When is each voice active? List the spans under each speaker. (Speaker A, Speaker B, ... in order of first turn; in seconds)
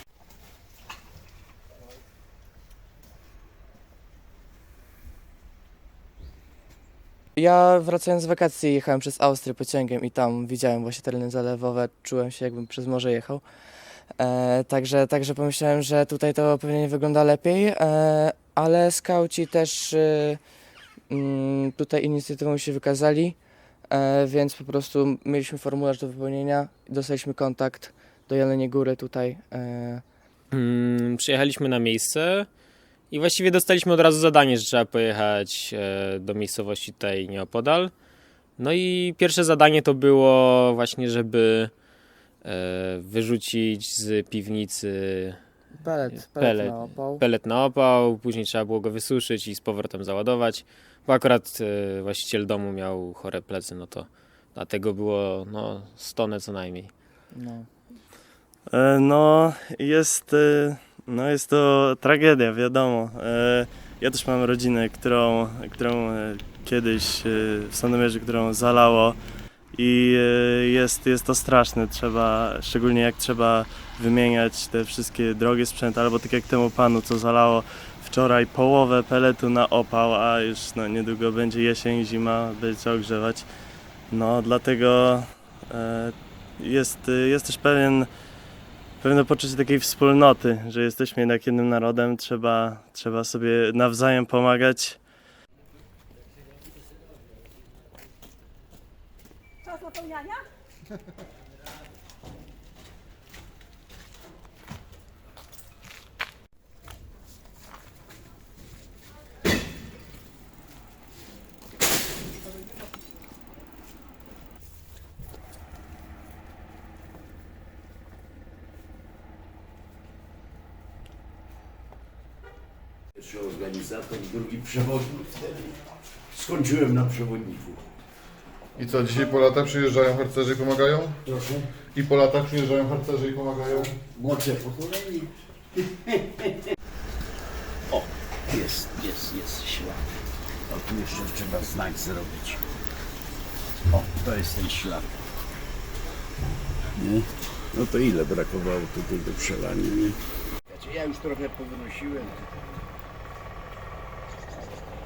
Speaker A: 7.3-13.4, 14.2-20.4, 21.1-30.0, 45.8-47.2, 57.3-57.7
Speaker B: 30.5-32.5, 33.1-37.9, 38.6-41.8, 42.4-45.4, 46.1-56.9
Speaker C: 58.7-69.2, 69.7-83.5, 84.1-88.1, 89.0-95.1
Speaker D: 123.2-125.8, 126.3-127.9, 131.3-131.7, 133.9-136.6, 137.9-140.0, 140.7-142.6, 143.9-145.1, 147.0-152.4
Speaker E: 128.8-131.2, 131.9-133.9